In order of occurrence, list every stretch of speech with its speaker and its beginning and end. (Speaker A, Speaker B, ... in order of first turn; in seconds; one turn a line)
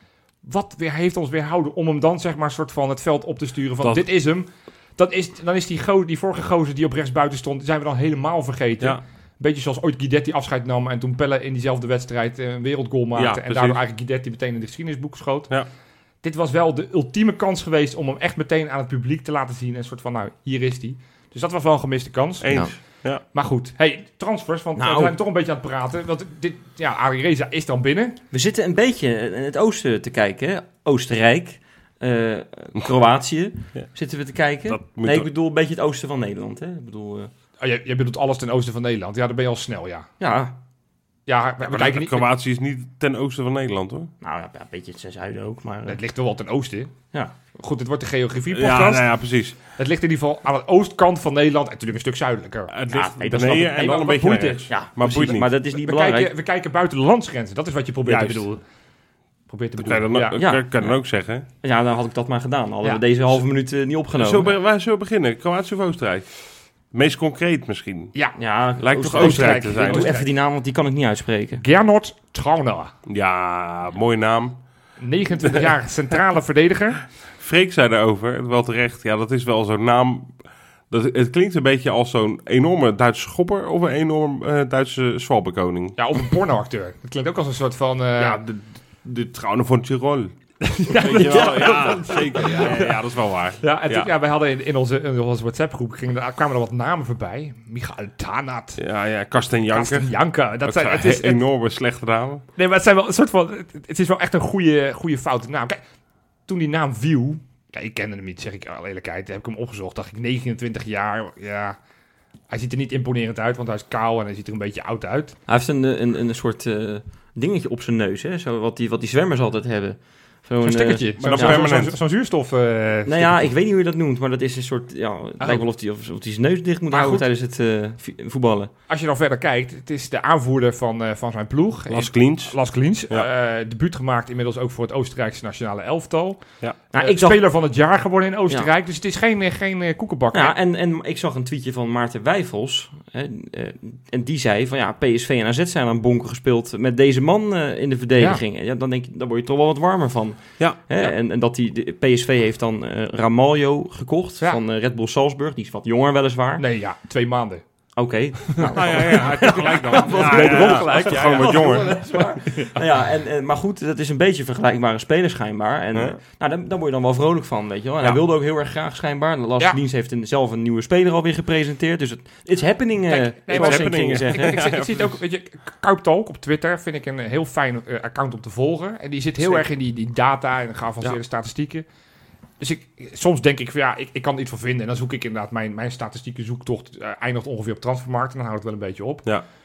Speaker A: 0.4-15.5
Speaker B: 13.2-13.8
Speaker A: 16.2-22.5
Speaker B: 22.4-23.2
Speaker A: 23.3-28.2
Speaker C: 24.8-25.1
Speaker C: 28.3-37.3
Speaker B: 34.7-35.3
Speaker A: 37.6-40.1
Speaker C: 40.2-40.5
Speaker A: 41.3-42.3
Speaker B: 41.6-44.1
Speaker C: 44.2-46.0
Speaker A: 45.9-46.9
Speaker A: 47.5-49.1
Speaker B: 48.5-49.6
Speaker A: 49.8-52.7
Speaker B: 52.7-55.5
Speaker C: 52.9-56.3
Speaker A: 53.5-58.6
Speaker B: 58.0-58.5
Speaker A: 59.5-60.4
Speaker B: 59.8-61.5
Speaker C: 60.3-61.0
Speaker C: 61.6-64.5
Speaker A: 62.8-63.4
Speaker B: 64.1-66.3
Speaker B: 66.9-68.1
Speaker C: 68.4-71.6
Speaker B: 68.8-70.1
Speaker A: 69.0-70.3
Speaker A: 71.6-72.9
Speaker B: 73.0-74.6
Speaker A: 75.0-77.0
Speaker B: 75.4-75.7
Speaker B: 77.4-80.3
Speaker B: 80.9-86.0
Speaker A: 86.0-88.4
Speaker B: 88.2-90.3
Speaker A: 90.6-93.0
Speaker B: 90.9-94.1
Speaker C: 91.3-91.9
Speaker A: 93.6-98.8
Speaker B: 98.8-100.1
Speaker A: 99.7-101.4
Speaker B: 100.6-102.4
Speaker A: 102.5-105.8
Speaker A: 106.5-111.8
Speaker A: 112.5-115.4
Speaker C: 115.5-121.7
Speaker A: 120.6-123.5
Speaker B: 121.2-122.0
Speaker C: 123.1-128.7
Speaker A: 126.9-127.2
Speaker A: 128.9-140.6
Speaker B: 131.9-132.6
Speaker C: 136.9-137.4
Speaker C: 140.3-156.6
Speaker A: 156.6-157.6
Speaker C: 157.9-174.6
Speaker A: 158.6-162.2
Speaker B: 158.7-162.0
Speaker B: 165.9-166.2
Speaker A: 173.1-181.8
Speaker B: 173.5-175.2
Speaker A: 182.6-189.3